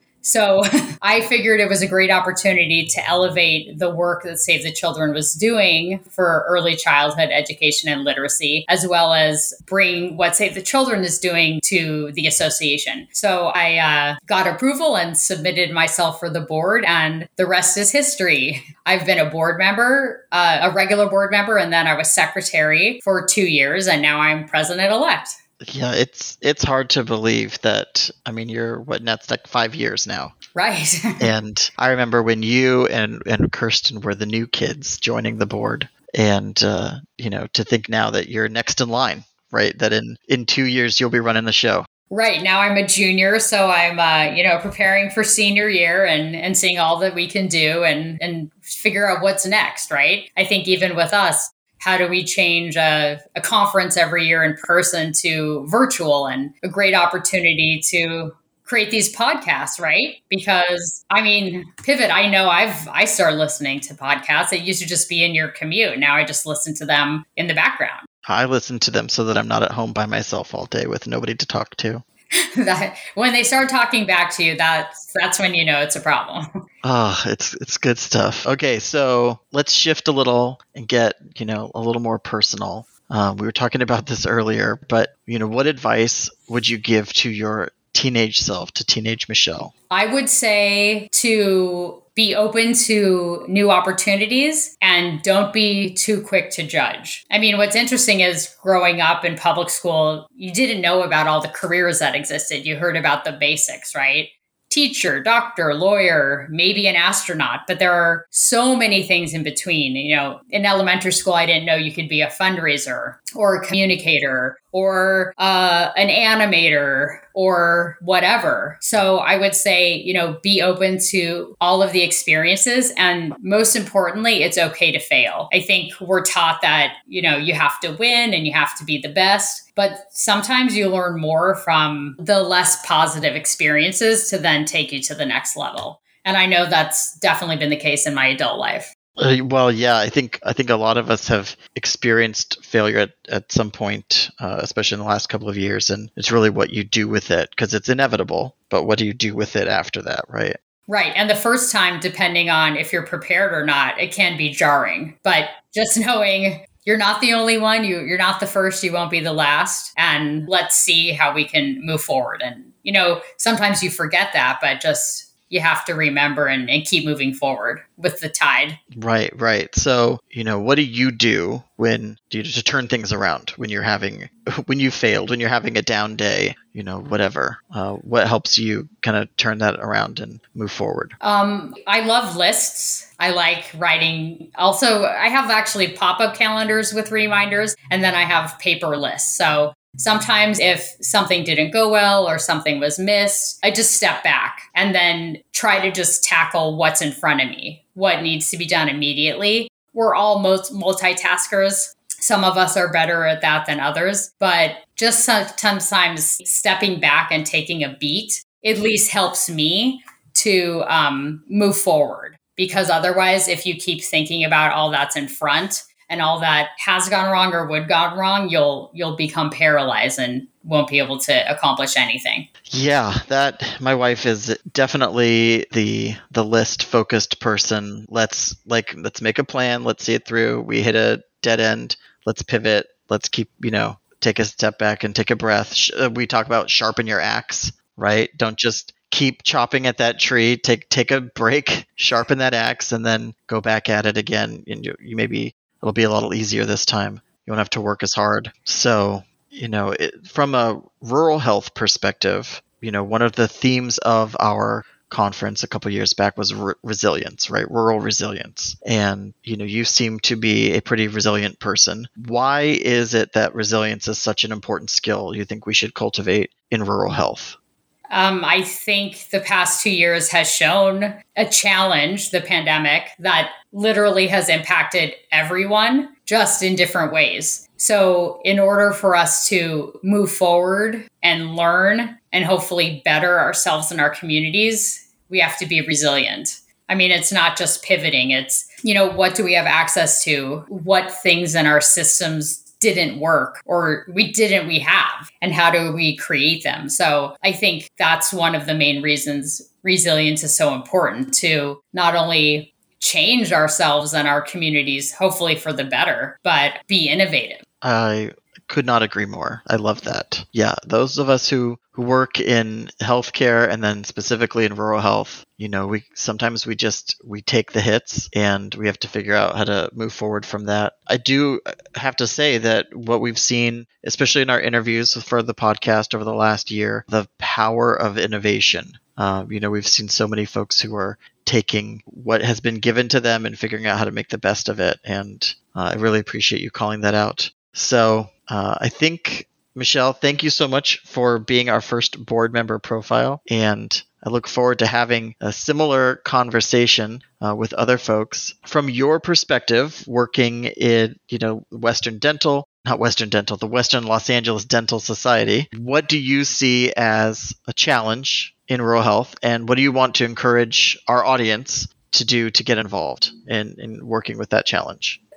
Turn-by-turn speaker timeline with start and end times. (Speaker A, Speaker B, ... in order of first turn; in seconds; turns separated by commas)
Speaker A: 0.2-25.4, Speaker B: 25.6-30.4, Speaker A: 30.5-31.3, Speaker B: 31.2-41.9, Speaker A: 42.1-68.1, Speaker B: 68.3-72.0, Speaker A: 72.4-76.5, Speaker B: 76.8-89.7, Speaker A: 89.9-138.9, Speaker B: 139.2-150.6, Speaker A: 150.9-168.8, Speaker B: 168.9-181.2, Speaker A: 181.2-222.5, Speaker B: 222.7-267.6, Speaker A: 268.1-307.6, Speaker B: 307.8-365.2